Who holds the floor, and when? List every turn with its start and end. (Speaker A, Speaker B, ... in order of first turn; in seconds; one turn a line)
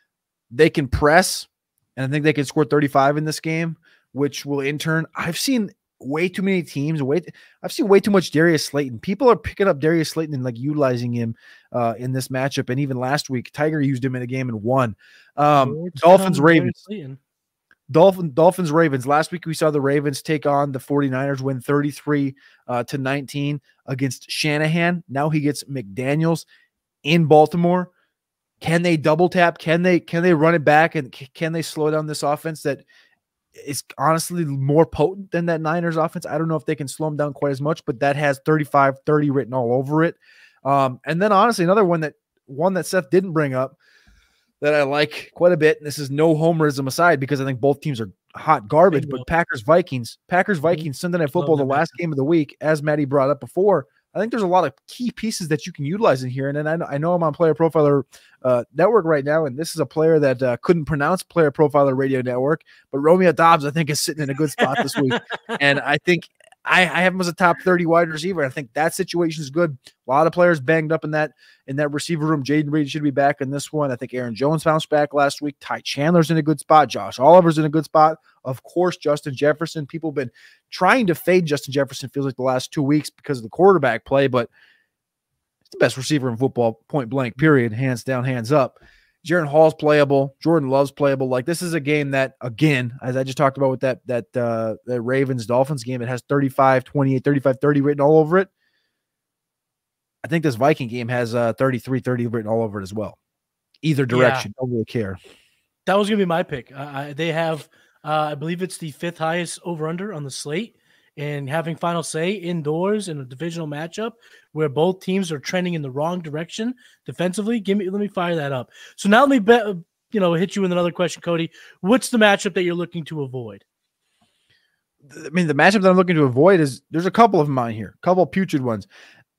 Speaker A: 0.5-16.8
Speaker B: 15.5-17.2
Speaker A: 17.9-26.5
Speaker A: 27.1-27.9
Speaker A: 28.6-32.9
Speaker A: 33.6-43.8
Speaker A: 44.6-84.5
Speaker B: 48.9-49.3
Speaker B: 50.7-51.9
Speaker B: 64.6-65.6
Speaker A: 85.7-98.5
Speaker A: 100.2-103.2
Speaker A: 103.8-105.2
Speaker B: 104.1-104.5
Speaker B: 105.9-123.6
Speaker A: 125.1-128.9